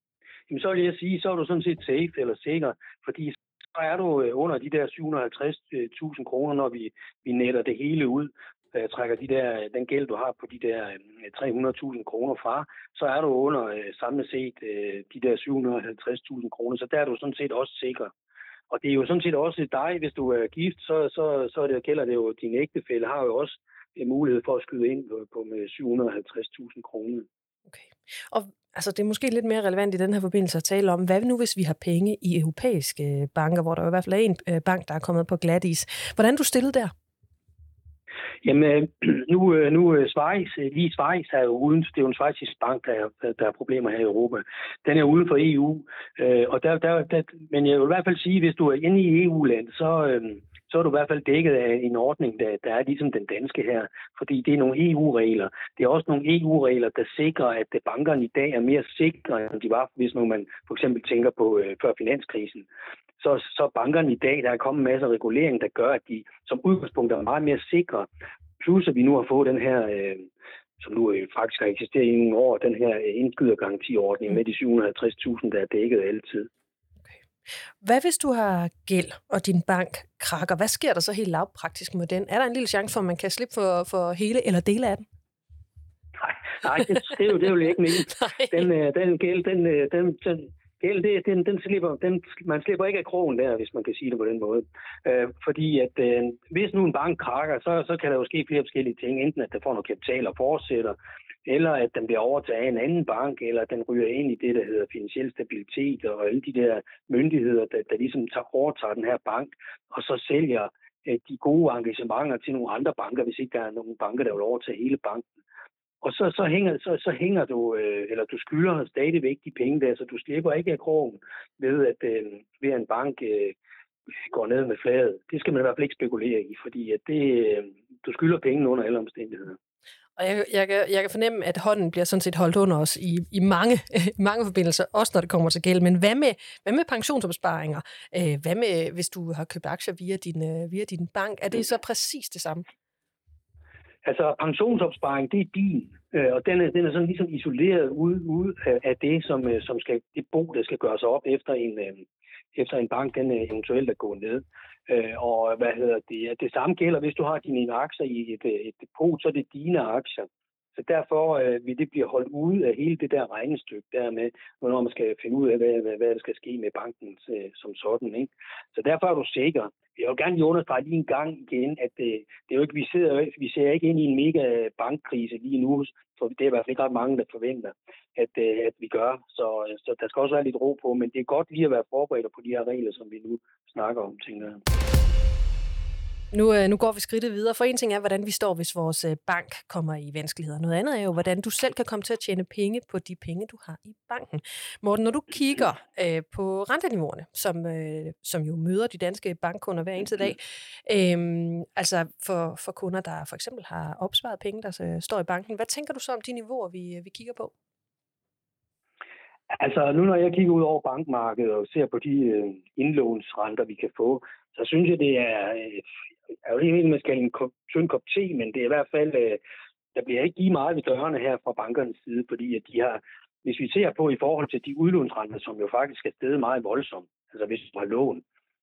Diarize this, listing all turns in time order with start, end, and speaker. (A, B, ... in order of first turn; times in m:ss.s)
0:00.5-0:18.1 A
0:18.7-0:27.3 A
0:27.7-0:36.9 B
0:38.4-1:02.7 A
1:03.2-1:08.1 A
1:08.6-1:10.3 A
1:10.8-1:16.5 A
1:17.8-1:25.0 B
1:26.2-1:55.3 A
1:28.1-1:28.5 B
1:56.0-2:03.6 A
2:04.3-2:09.6 A
2:10.2-2:22.6 B
2:24.0-3:04.6 A
3:06.3-3:27.5 B
3:29.5-3:35.8 A
3:36.4-3:39.4 A
3:40.0-3:48.2 A